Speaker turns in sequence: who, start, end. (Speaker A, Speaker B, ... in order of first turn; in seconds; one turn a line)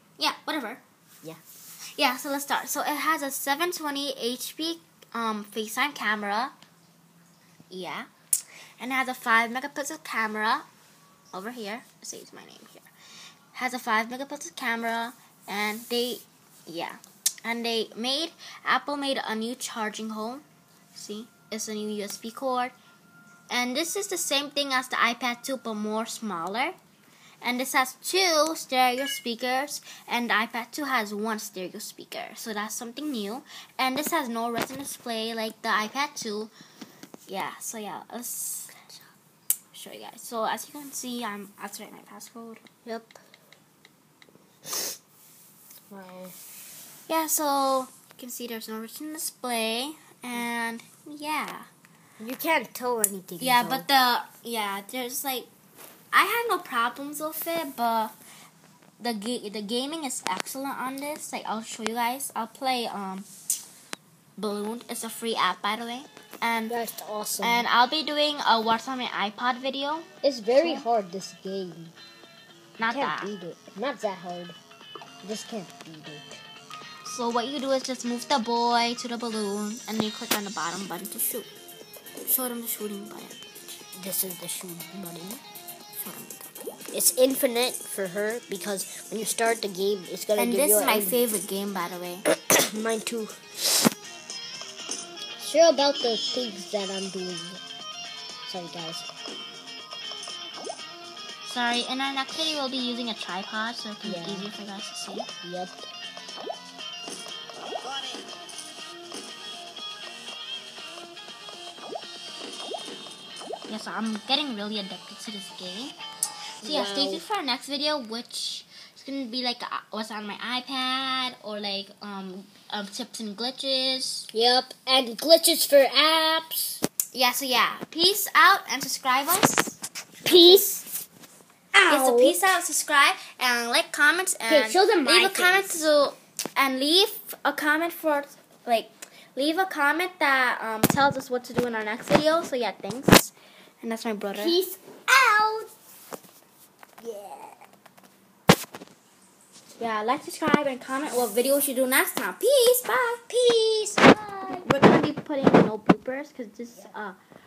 Speaker A: 0.2-0.8
Speaker A: 1.9-6.5
Speaker A: 7.7-8.1
Speaker A: 8.8-10.7
Speaker A: 11.3-12.9
Speaker A: 13.5-22.7
Speaker A: 23.5-26.8
Speaker A: 27.4-36.5
Speaker A: 37.3-38.7
Speaker A: 39.7-42.6
Speaker B: 42.8-43.2
Speaker B: 45.9-46.3
Speaker A: 47.1-51.7
Speaker B: 52.2-53.9
Speaker A: 53.4-55.5
Speaker A: 56.1-58.1
Speaker A: 59.0-63.3
Speaker A: 64.4-66.7
Speaker B: 66.7-67.7
Speaker A: 67.4-70.8
Speaker B: 70.2-71.9
Speaker A: 72.8-73.3
Speaker B: 72.8-74.5
Speaker B: 75.2-76.4
Speaker A: 77.0-81.5
Speaker A: 82.2-83.8
Speaker B: 84.0-85.4
Speaker A: 86.0-86.5
Speaker B: 86.9-91.2
Speaker A: 90.4-92.2
Speaker B: 92.3-93.8
Speaker B: 95.4-97.6
Speaker B: 98.4-99.1
Speaker A: 101.4-105.3
Speaker B: 104.0-104.5
Speaker B: 105.4-105.8
Speaker A: 113.7-115.9
Speaker B: 116.6-117.2
Speaker A: 116.6-124.3
Speaker B: 124.3-126.8
Speaker A: 127.1-130.7
Speaker B: 130.2-130.8
Speaker B: 131.7-132.4
Speaker A: 131.9-144.6
Speaker B: 134.4-135.8
Speaker B: 144.3-145.7
Speaker B: 147.0-147.6
Speaker A: 149.8-153.4
Speaker B: 153.3-154.7
Speaker A: 154.6-157.2